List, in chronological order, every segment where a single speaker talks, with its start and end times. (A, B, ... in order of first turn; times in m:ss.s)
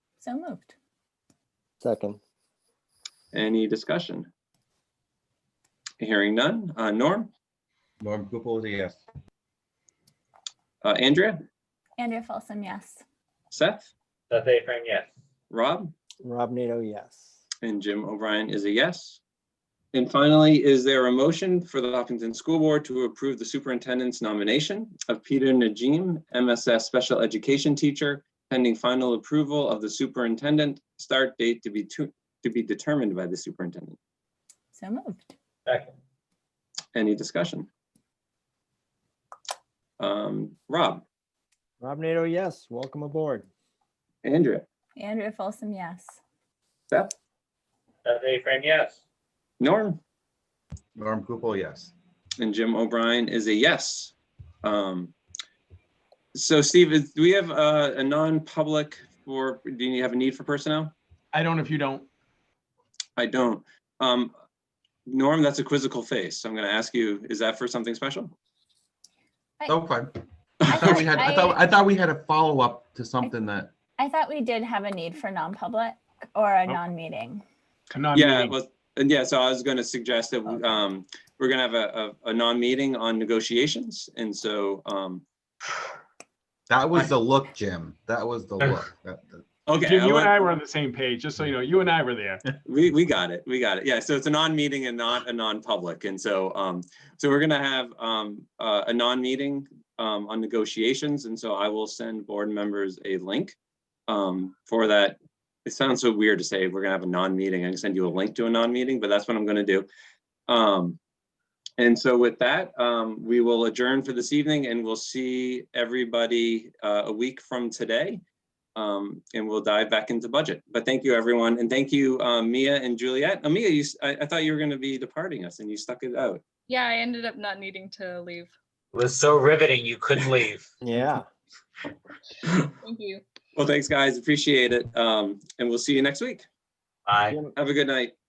0:00.2-0:00.7 A
0:01.8-0:02.2 B
0:03.3-0:04.3 C
0:06.0-0:07.3 C
0:08.0-0:09.0 D
0:10.8-0:11.4 C
0:12.0-0:13.0 A
0:13.5-0:13.9 C
0:14.3-0:15.1 E
0:15.5-0:15.9 C
0:16.2-0:17.3 B
0:17.6-0:19.2 C
0:19.9-0:34.0 C
0:34.7-0:35.3 A
0:35.7-0:35.9 E
0:37.0-0:37.7 C
0:40.0-0:41.0 C
0:41.8-0:43.5 B
0:44.2-0:44.6 C
0:45.0-0:46.2 A
0:48.0-0:49.0 E
0:49.6-0:50.0 C
0:51.0-0:51.9 D
0:52.4-0:55.1 C
0:56.3-1:00.9 C
1:01.3-1:02.1 F
1:03.2-1:04.3 C
1:05.0-1:08.3 C
1:09.7-1:10.1 D
1:10.7-1:11.6 A
1:10.7-1:13.7 D
1:14.0-1:17.4 A
1:17.9-1:18.6 F
1:18.1-1:25.2 C
1:26.7-1:29.4 D
1:29.7-1:30.6 C
1:29.7-1:32.4 F
1:32.7-1:43.6 C
1:44.1-1:49.8 C
1:50.5-1:51.0 C
1:51.8-1:58.2 C
1:58.8-2:06.4 C
2:06.7-2:08.5 G
2:08.9-2:10.7 E
2:10.8-2:11.2 B
2:12.8-2:13.2 G
2:13.6-2:16.5 C
2:17.1-2:17.4 E
2:17.2-2:17.5 B
2:17.6-2:18.2 C